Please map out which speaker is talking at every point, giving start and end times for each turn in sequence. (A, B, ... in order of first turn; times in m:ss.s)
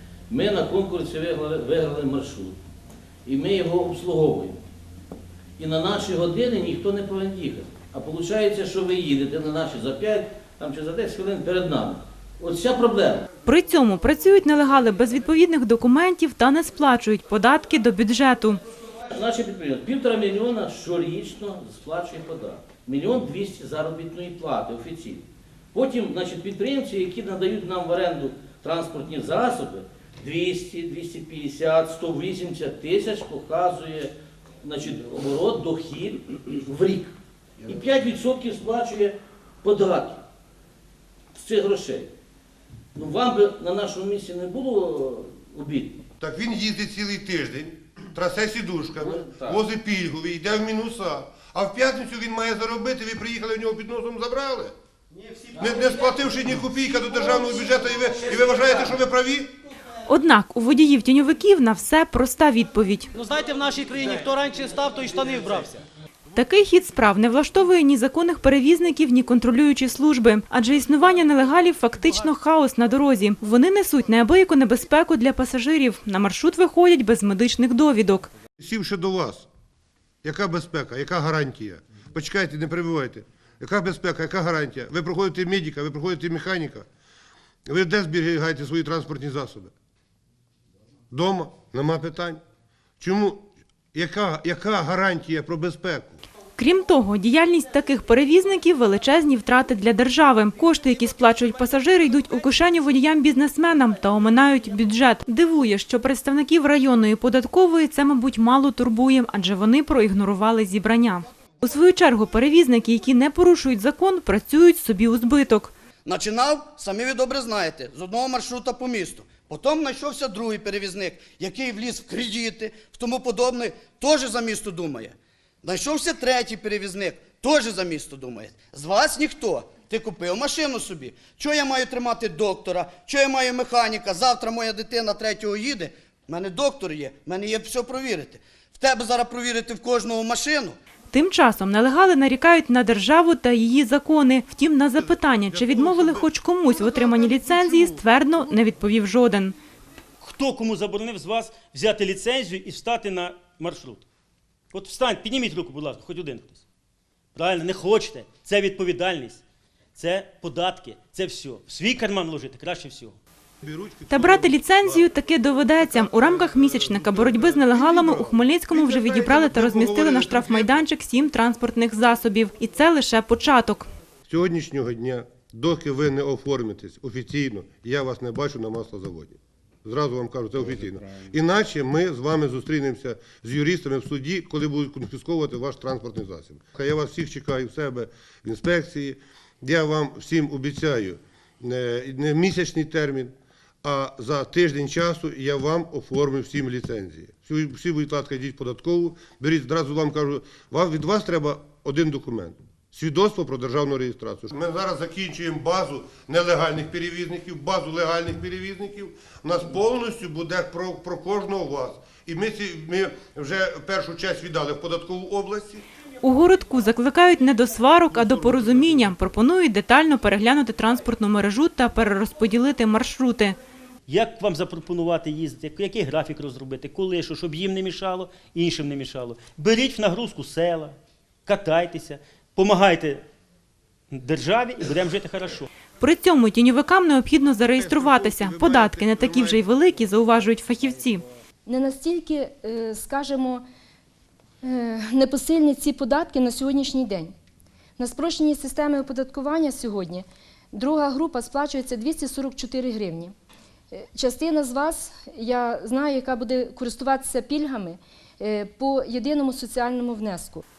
0:00.3-0:02.6 A
0:03.2-0:04.6 A
0:05.6-0:13.2 A
0:13.4-0:18.6 B
0:19.1-0:40.2 A
0:41.4-0:42.1 A
0:43.0-0:46.0 A
0:46.2-0:54.7 C
0:48.9-0:49.6 A
0:55.6-0:59.5 C
1:00.1-1:03.1 B
1:03.2-1:05.8 D
1:06.3-1:18.3 B
1:18.6-1:19.5 C
1:20.2-1:26.9 C
1:27.7-1:29.7 C
1:31.1-1:32.4 C
1:33.0-1:36.2 C
1:36.6-1:55.7 B
1:56.0-2:20.8 E
2:21.1-2:29.5 B
2:25.0-2:28.0 C
2:30.2-2:34.0 F
2:34.7-2:36.6 F
2:37.3-2:39.4 F
2:40.0-2:43.2 F
2:43.6-2:45.1 C
2:44.1-2:53.9 B
2:45.8-2:50.8 C
2:54.3-3:35.8 C
3:36.2-3:43.6 B
3:38.1-3:39.0 C
3:44.1-3:53.2 F
3:54.1-3:55.7 F
3:56.0-4:01.2 B
3:57.8-3:59.6 C
4:01.7-4:03.6 G
4:04.6-4:07.3 G
4:08.0-4:13.3 G
4:13.9-4:20.6 G